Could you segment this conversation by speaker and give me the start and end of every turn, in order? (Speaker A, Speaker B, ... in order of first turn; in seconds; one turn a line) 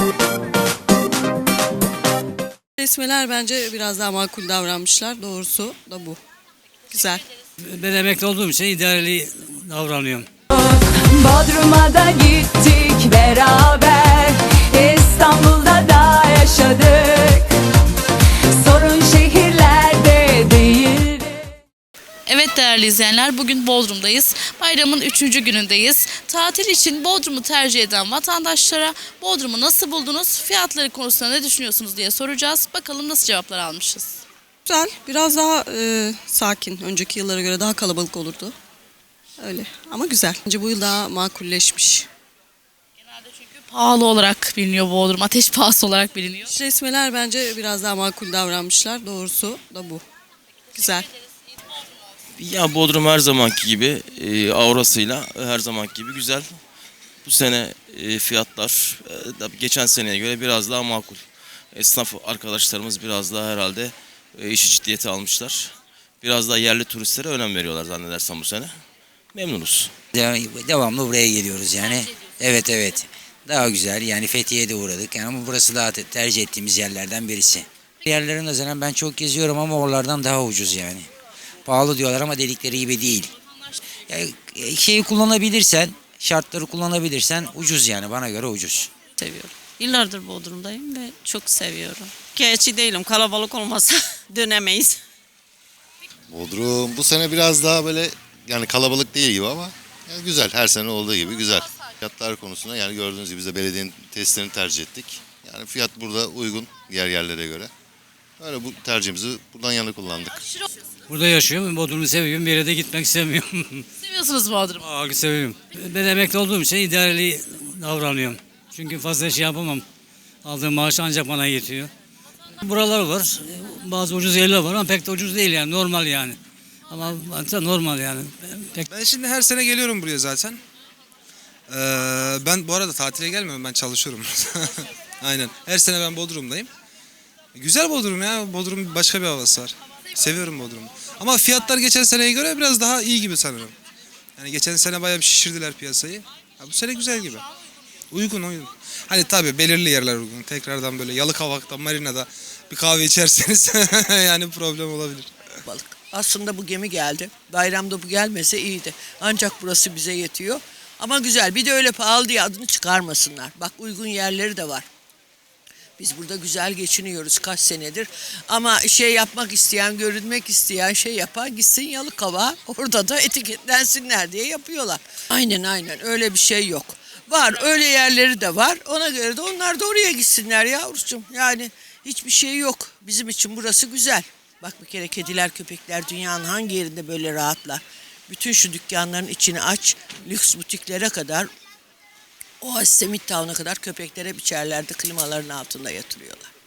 Speaker A: 2.8-6.2
Speaker A: 6.9-7.2
Speaker B: 7.7-10.3
Speaker C: 10.5-17.5
Speaker C: 18.6-21.5
Speaker D: 22.2-34.2
Speaker A: 34.6-38.5
Speaker A: 39.4-42.1
Speaker D: 43.2-46.5
Speaker A: 46.5-50.0
Speaker A: 50.7-51.0
Speaker E: 52.4-56.5
Speaker E: 57.2-68.7
Speaker E: 69.3-69.9
Speaker F: 70.1-81.1
Speaker F: 81.6-83.3
Speaker F: 84.1-88.9
Speaker G: 89.2-95.0
Speaker H: 96.3-107.7
Speaker H: 108.4-110.4
Speaker B: 111.1-113.8
Speaker D: 114.0-114.8
Speaker B: 114.8-119.8
Speaker B: 120.4-121.9
Speaker B: 122.6-126.4
Speaker B: 126.9-128.9
Speaker I: 128.9-130.6
Speaker I: 131.7-136.7
Speaker I: 137.5-143.7
Speaker I: 144.4-147.4
Speaker I: 148.1-155.3
Speaker J: 155.7-164.8
Speaker J: 166.0-191.5
Speaker J: 192.6-196.5